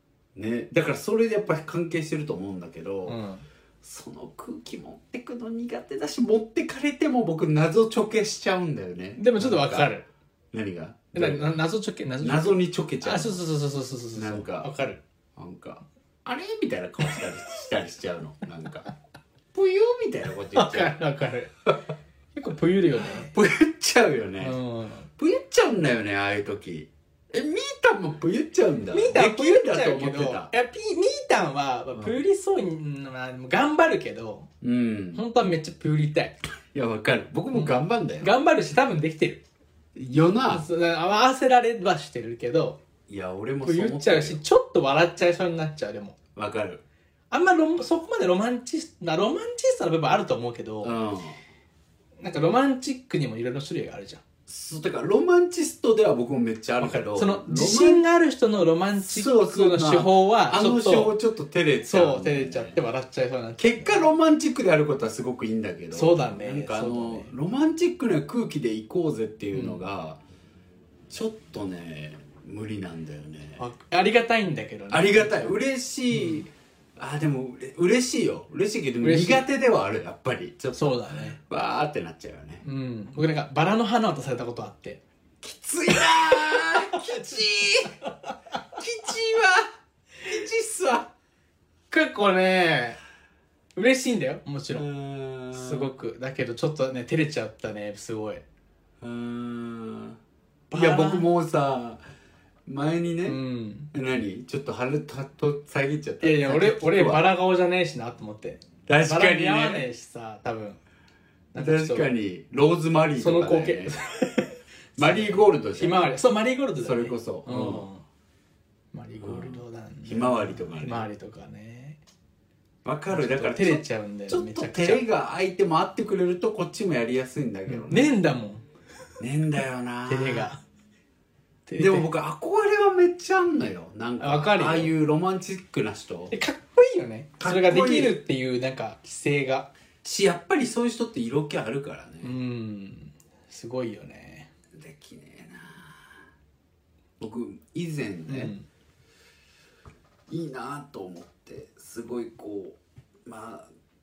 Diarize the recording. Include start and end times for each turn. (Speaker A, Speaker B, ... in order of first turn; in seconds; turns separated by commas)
Speaker A: 0.3-3.2, Speaker B: 3.0-3.4, Speaker A: 3.8-9.9, Speaker B: 9.2-10.1, Speaker A: 10.5-11.6, Speaker B: 11.1-15.0, Speaker A: 12.2-13.4, Speaker A: 14.1-14.7, Speaker A: 15.3-18.9, Speaker A: 19.5-20.9, Speaker B: 20.5-21.5, Speaker B: 22.3-23.3, Speaker A: 23.2-24.6, Speaker B: 24.4-25.1, Speaker A: 25.2-30.5, Speaker B: 28.9-34.5, Speaker A: 34.6-35.2, Speaker B: 35.1-36.4, Speaker A: 36.7-38.3, Speaker B: 37.5-39.4, Speaker A: 39.9-40.6, Speaker B: 40.5-42.8, Speaker A: 43.1-44.4, Speaker B: 43.6-46.1, Speaker A: 46.3-46.8, Speaker B: 47.3-51.0, Speaker A: 50.8-51.4, Speaker B: 52.2-54.2, Speaker A: 54.5-58.0, Speaker B: 56.8-61.1, Speaker A: 59.0-62.8, Speaker B: 61.8-64.1, Speaker A: 63.6-70.2, Speaker B: 65.9-67.3, Speaker B: 69.5-69.8, Speaker A: 71.1-73.6, Speaker B: 73.6-76.4, Speaker A: 74.9-82.6, Speaker B: 79.0-79.5, Speaker B: 80.7-81.4, Speaker B: 82.6-85.0, Speaker A: 85.4-88.0, Speaker A: 88.8-89.7, Speaker A: 90.2-91.1, Speaker B: 91.9-93.0, Speaker B: 93.8-94.9, Speaker A: 94.7-95.9, Speaker B: 95.5-98.4, Speaker A: 99.0-100.2, Speaker B: 100.7-101.3, Speaker A: 100.7-102.0, Speaker A: 102.7-103.4, Speaker B: 103.2-103.9, Speaker A: 103.9-107.3, Speaker B: 106.2-110.8, Speaker A: 108.9-109.9, Speaker B: 111.5-112.1, Speaker A: 111.5-113.9, Speaker B: 113.2-118.0, Speaker A: 115.0-116.1, Speaker A: 116.8-117.9, Speaker B: 118.9-122.0, Speaker A: 119.2-121.1, Speaker A: 122.8-128.1, Speaker B: 123.1-125.0, Speaker B: 127.7-128.6, Speaker A: 129.2-130.5, Speaker B: 130.1-130.6, Speaker B: 131.7-132.1, Speaker A: 131.8-136.3, Speaker B: 134.2-134.9, Speaker B: 136.3-139.7, Speaker A: 137.4-138.2, Speaker A: 140.0-142.3, Speaker B: 142.2-144.5, Speaker A: 144.7-146.1, Speaker A: 147.2-148.5, Speaker B: 148.3-148.7, Speaker A: 150.3-153.7